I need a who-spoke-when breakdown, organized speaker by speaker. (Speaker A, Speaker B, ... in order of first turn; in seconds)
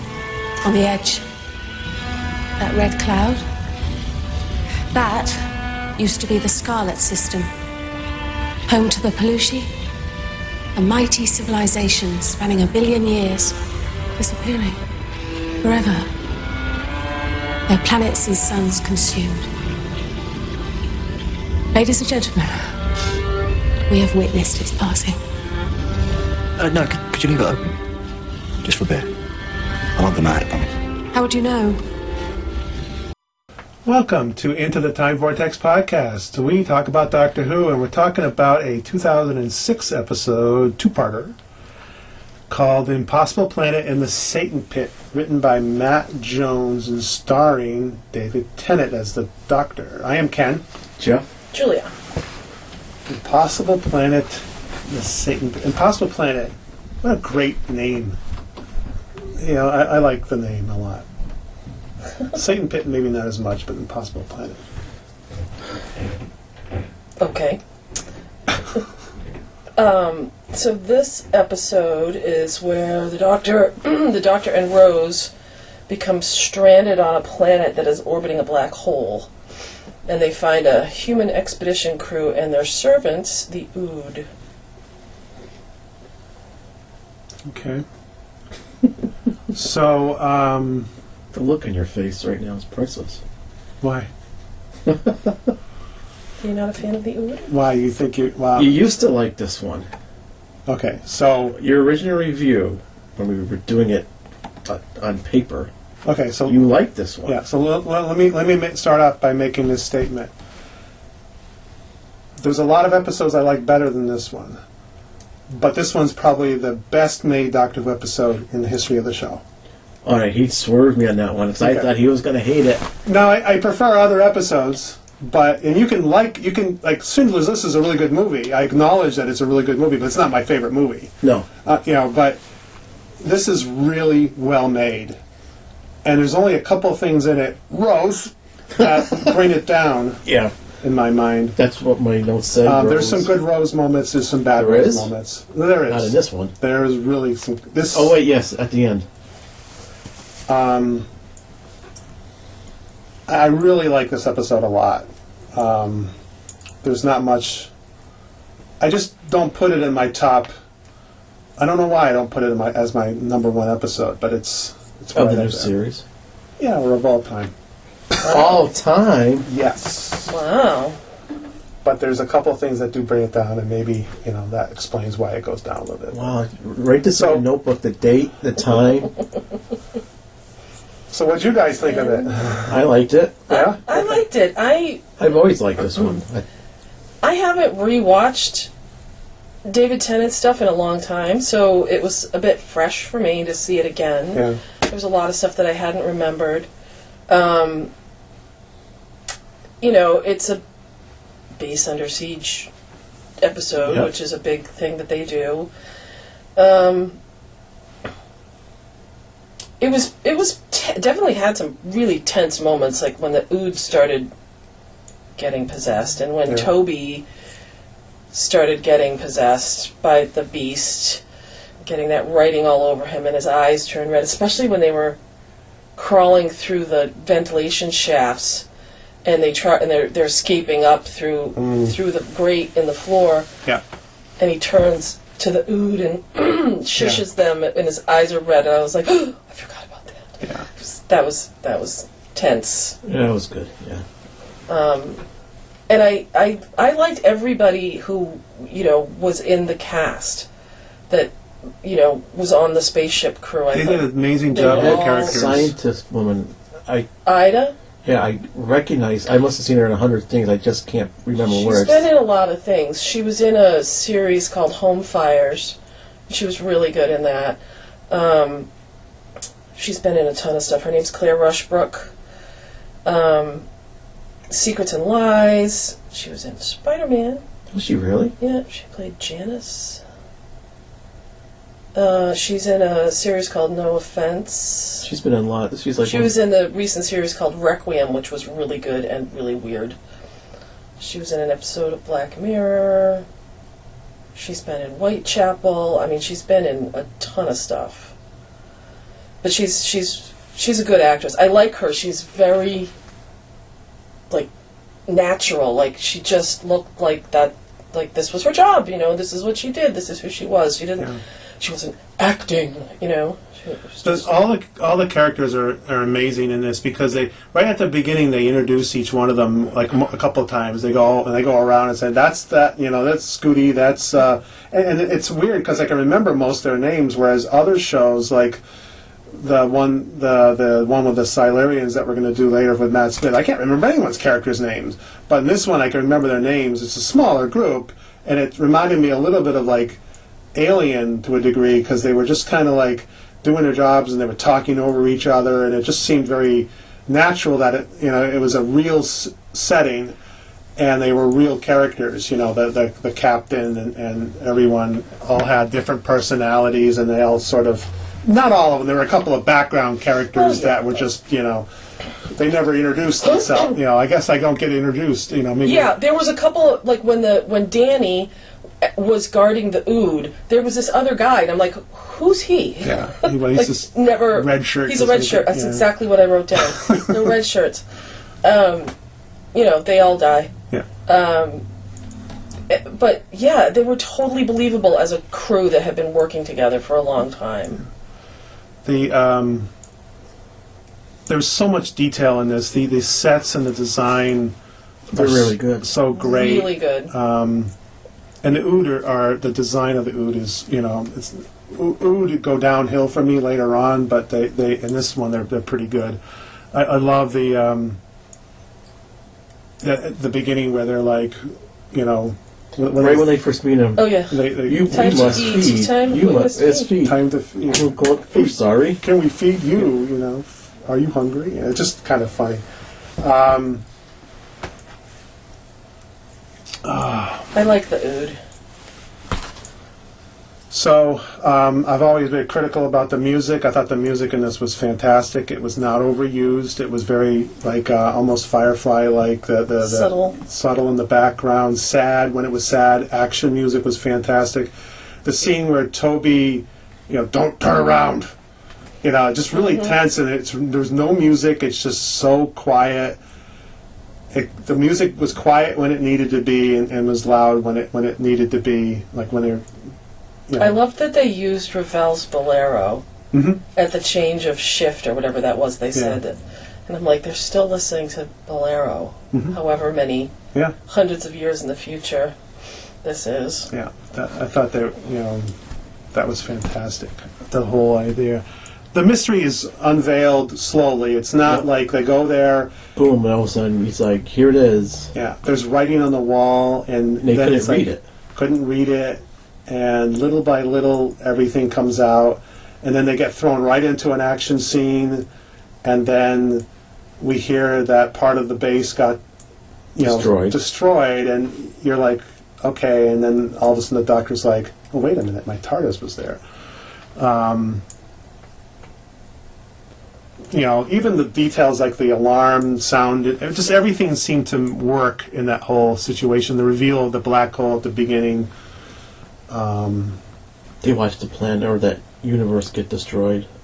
Speaker A: 0.6-1.2, 2.6-3.4, 4.9-5.4, 6.0-7.5, 8.7-9.7, 10.8-13.6, 14.2-14.8, 15.6-16.1, 17.7-19.5, 21.7-22.7, 23.9-25.2, 31.1-31.8
Speaker B: 26.6-27.7, 28.6-29.1, 30.0-30.7
Speaker C: 33.9-41.4, 42.5-50.6, 53.1-58.2, 59.4-61.0, 62.3-64.6, 87.5-87.8, 89.5-90.9, 93.8-94.1, 97.5-98.8, 100.7-101.6, 106.0-106.6, 107.2-110.3, 112.4-114.6, 115.5-119.4, 121.6-121.9, 123.1-132.4, 133.2-135.2, 136.0-140.2, 140.8-141.6, 142.6-148.2, 150.5-151.1, 153.3-156.1, 156.8-157.7, 158.8-160.5, 161.6-165.7, 166.6-167.5, 168.1-168.6, 169.4-170.4, 171.8-176.3, 177.2-177.4, 181.1-182.8, 183.5-184.1, 194.3-194.6, 231.6-231.9, 237.0-237.2, 253.7-255.7, 314.0-328.6, 329.3-340.0, 340.6-350.2, 350.8-361.7, 362.4-365.9, 372.8-375.9, 376.8-377.2, 388.9-389.7, 391.3-394.6, 395.1-397.7, 398.4-406.2, 406.7-408.0, 409.8-413.3, 414.3-415.6, 417.0-422.6, 423.2-423.8, 426.8-427.5, 430.7-444.7, 445.2-448.3, 449.0-453.2, 454.3-459.7, 460.5-460.8, 463.3-463.6, 473.7-475.5, 476.1-482.8, 485.1-495.3, 495.9-496.7, 497.2-499.2, 499.9-506.4, 507.2-507.8, 510.5-518.5, 519.5-520.2
Speaker D: 51.0-51.3, 91.3-93.2, 94.9-95.5, 98.5-99.9, 101.5-104.1, 104.7-105.7, 106.5-107.4, 120.0-122.8, 140.3-140.5, 141.6-143.3, 144.6-145.1, 145.9-146.5, 147.9-149.1, 165.2-166.0, 168.2-169.5, 176.1-179.2, 182.7-183.4, 185.2-186.4, 243.0-244.0, 254.6-257.1, 258.0-262.1, 277.7-278.3, 285.0-286.4, 395.1-395.9, 413.0-419.0, 482.9-485.1, 487.2-488.0, 500.0-500.6, 520.8-523.5
Speaker E: 51.5-51.9, 67.2-67.6, 69.8-75.3, 75.9-79.3, 80.1-84.3, 96.4-97.5, 170.3-171.0, 181.9-182.3, 183.5-185.2, 187.2-188.7, 189.7-196.7, 197.3-197.9, 199.8-200.6, 201.6-202.7, 203.4-205.7, 206.6-207.2, 209.8-214.3, 215.4-217.2, 218.3-221.2, 221.8-225.2, 225.9-228.7, 229.2-233.5, 234.4-243.0, 244.7-245.2, 245.9-250.5, 251.1-255.7, 257.2-257.8, 261.4-265.8, 266.3-268.7, 269.8-272.1, 273.1-273.7, 274.5-277.4, 278.4-280.0, 281.9-285.1, 286.0-290.0, 291.0-293.2, 294.4-298.1, 299.4-302.9, 305.1-314.3, 360.4-360.8, 365.6-368.3, 368.8-377.8, 378.4-378.9, 379.5-380.5, 381.1-381.6, 382.7-387.9, 396.1-397.1, 414.0-416.9, 427.5-428.4, 439.8-440.4, 449.6-449.9, 460.6-463.1, 463.8-470.3, 470.9-472.4, 473.0-473.7